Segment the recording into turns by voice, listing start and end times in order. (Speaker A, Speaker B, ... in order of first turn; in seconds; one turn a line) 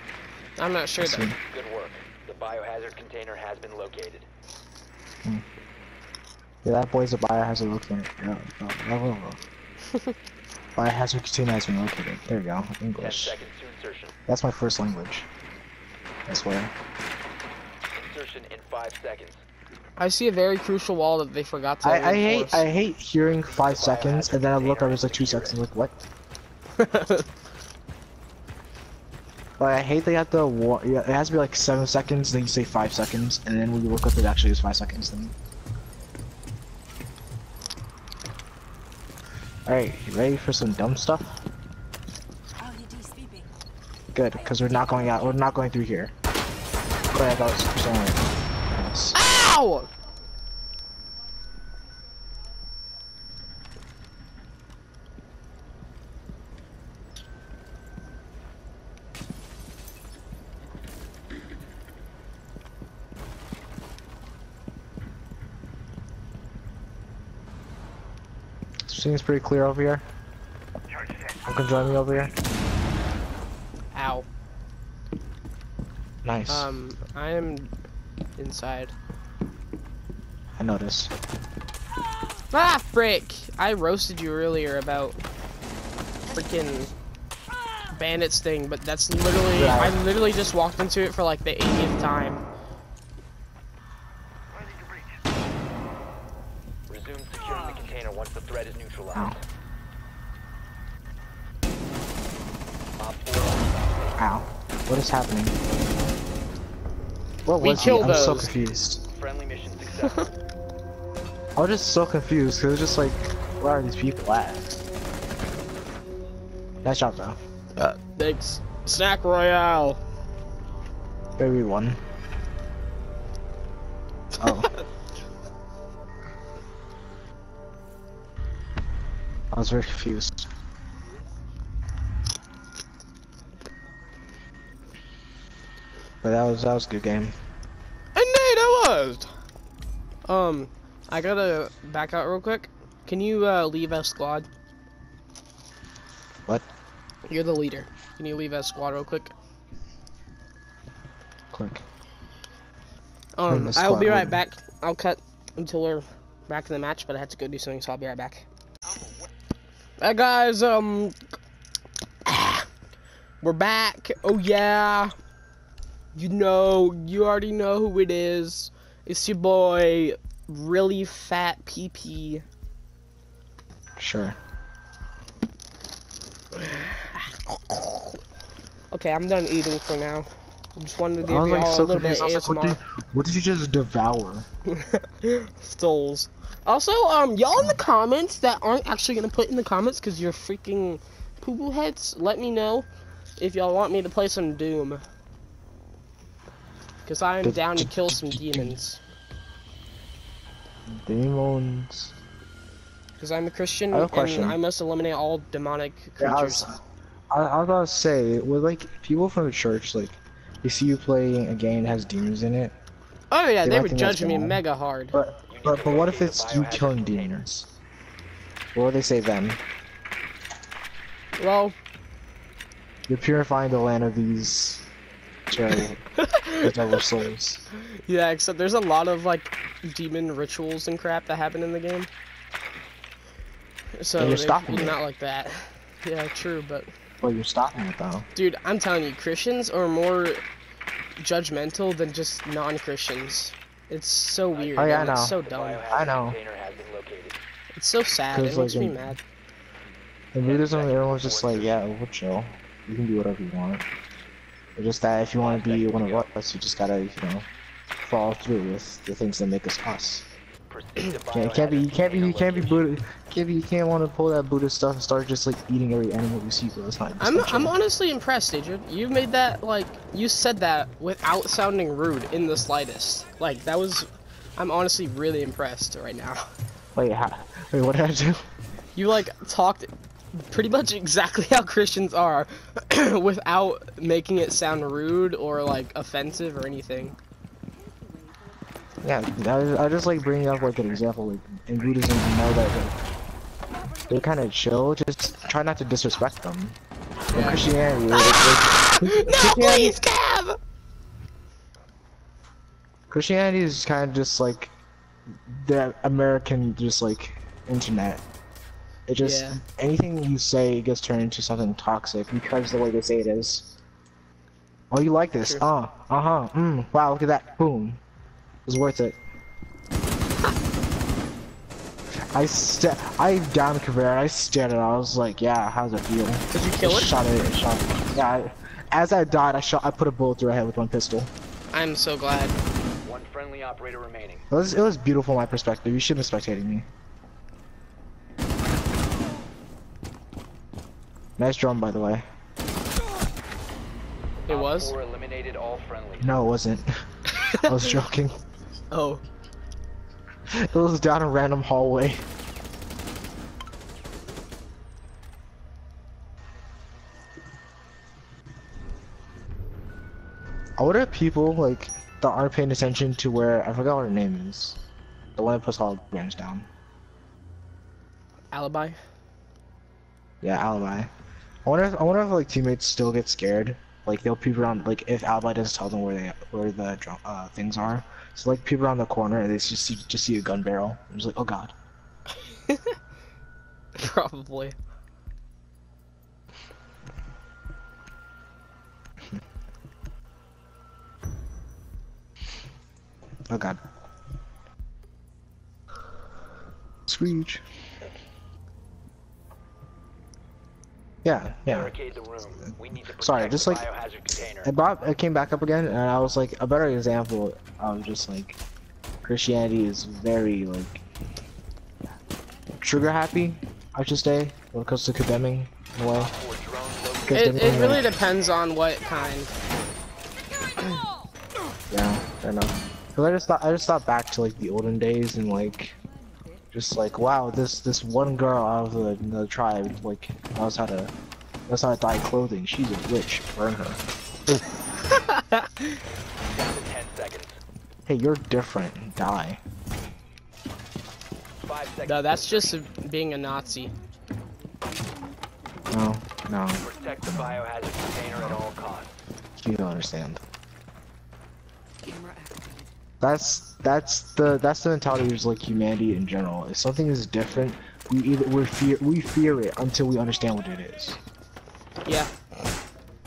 Speaker A: 0.6-1.3
Speaker B: 1.0-1.4
Speaker C: 1.4-4.3
Speaker B: 6.6-9.4
Speaker B: 10.8-13.4
Speaker C: 13.0-14.2
Speaker B: 14.3-15.3
Speaker B: 16.3-16.7
Speaker C: 17.9-19.4
Speaker A: 20.0-22.6
Speaker B: 21.8-26.0
Speaker C: 23.5-25.6
Speaker A: 26.8-27.3
Speaker B: 29.6-35.4
Speaker B: 39.7-41.4
Speaker B: 44.1-46.1
Speaker B: 47.1-49.2
Speaker A: 49.1-49.9
Speaker B: 68.8-70.0
Speaker B: 71.5-72.3
Speaker A: 73.9-74.3
Speaker B: 76.2-76.7
Speaker A: 76.5-77.7
Speaker A: 78.4-78.9
Speaker B: 80.6-81.1
Speaker A: 82.5-85.2
Speaker A: 86.3-86.9
Speaker A: 87.9-92.4
Speaker B: 89.6-90.0
Speaker C: 96.9-99.4
Speaker C: 103.0-104.2
Speaker B: 104.2-105.6
Speaker B: 107.5-109.0
Speaker A: 107.6-108.5
Speaker C: 109.1-110.3
Speaker B: 111.6-114.8
Speaker B: 116.8-117.4
Speaker A: 117.8-120.0
Speaker B: 121.4-122.0
Speaker A: 124.4-124.8
Speaker B: 124.4-124.7
Speaker B: 129.5-130.5
Speaker B: 136.2-137.3
Speaker A: 138.2-139.3
Speaker A: 140.3-144.5
Speaker A: 147.3-149.3
Speaker B: 151.5-151.8
Speaker A: 153.4-158.4
Speaker B: 153.5-154.4
Speaker A: 160.0-161.2
Speaker A: 162.3-162.7
Speaker A: 163.4-165.1
Speaker A: 166.1-172.4
Speaker B: 174.0-174.4
Speaker A: 176.5-178.2
Speaker A: 178.9-182.8
Speaker B: 181.2-184.5
Speaker A: 184.7-192.9
Speaker A: 193.4-195.0
Speaker A: 197.1-199.0
Speaker B: 197.4-198.8
Speaker B: 200.9-202.2
Speaker A: 203.2-206.7
Speaker B: 203.9-204.6
Speaker B: 206.2-206.8
Speaker B: 207.3-212.7
Speaker A: 213.3-215.2
Speaker B: 213.6-214.6
Speaker B: 215.1-217.7
Speaker C: 215.5-217.4
Speaker B: 218.7-219.6
Speaker A: 221.4-221.8
Speaker B: 223.1-224.9
Speaker B: 225.5-227.7
Speaker A: 225.7-227.0
Speaker A: 227.7-232.1
Speaker A: 234.0-236.9
Speaker B: 234.2-235.0
Speaker B: 237.2-238.3
Speaker A: 238.3-240.4
Speaker A: 241.2-245.9
Speaker C: 244.5-247.4
Speaker B: 244.8-245.4
Speaker B: 245.9-246.4
Speaker A: 247.8-249.2
Speaker B: 248.3-249.2
Speaker B: 250.3-253.9
Speaker C: 250.4-251.9
Speaker B: 254.8-257.5
Speaker C: 255.4-256.3
Speaker B: 258.0-260.3
Speaker C: 260.7-262.9
Speaker B: 261.3-267.8
Speaker A: 267.2-276.5
Speaker B: 276.9-278.4
Speaker A: 278.9-287.2
Speaker B: 289.0-293.0
Speaker B: 294.1-296.8
Speaker A: 297.3-300.6
Speaker B: 297.3-300.0
Speaker B: 303.1-304.7
Speaker B: 305.4-308.2
Speaker B: 309.1-313.7
Speaker A: 309.2-309.6
Speaker B: 314.9-318.0
Speaker B: 318.7-319.2
Speaker B: 322.3-331.3
Speaker A: 326.5-327.1
Speaker A: 331.7-332.6
Speaker C: 333.0-334.4
Speaker B: 334.5-336.9
Speaker B: 341.4-342.2
Speaker A: 344.5-344.9
Speaker C: 344.5-346.3
Speaker B: 346.2-346.9
Speaker A: 347.4-347.9
Speaker B: 347.6-348.4
Speaker A: 348.9-349.2
Speaker B: 350.5-352.2
Speaker B: 360.8-364.8
Speaker B: 365.4-366.7
Speaker A: 368.5-369.0
Speaker B: 370.4-371.1
Speaker B: 371.6-381.8
Speaker A: 382.5-383.0
Speaker A: 384.0-384.8
Speaker B: 393.5-393.8
Speaker B: 397.1-397.6
Speaker B: 401.2-401.9
Speaker C: 401.7-404.7
Speaker B: 403.2-403.9
Speaker B: 404.6-408.6
Speaker B: 409.2-411.0
Speaker B: 412.8-416.3
Speaker C: 416.1-418.6
Speaker B: 417.2-418.1
Speaker A: 417.3-419.5
Speaker B: 421.9-426.0
Speaker B: 426.7-431.1
Speaker B: 431.7-434.0
Speaker A: 435.1-436.0
Speaker C: 436.5-437.6
Speaker B: 438.1-439.6
Speaker C: 441.7-442.8
Speaker A: 442.1-443.9
Speaker B: 445.9-447.6
Speaker C: 446.8-449.1
Speaker B: 449.6-450.4
Speaker B: 453.2-461.2
Speaker A: 462.1-462.3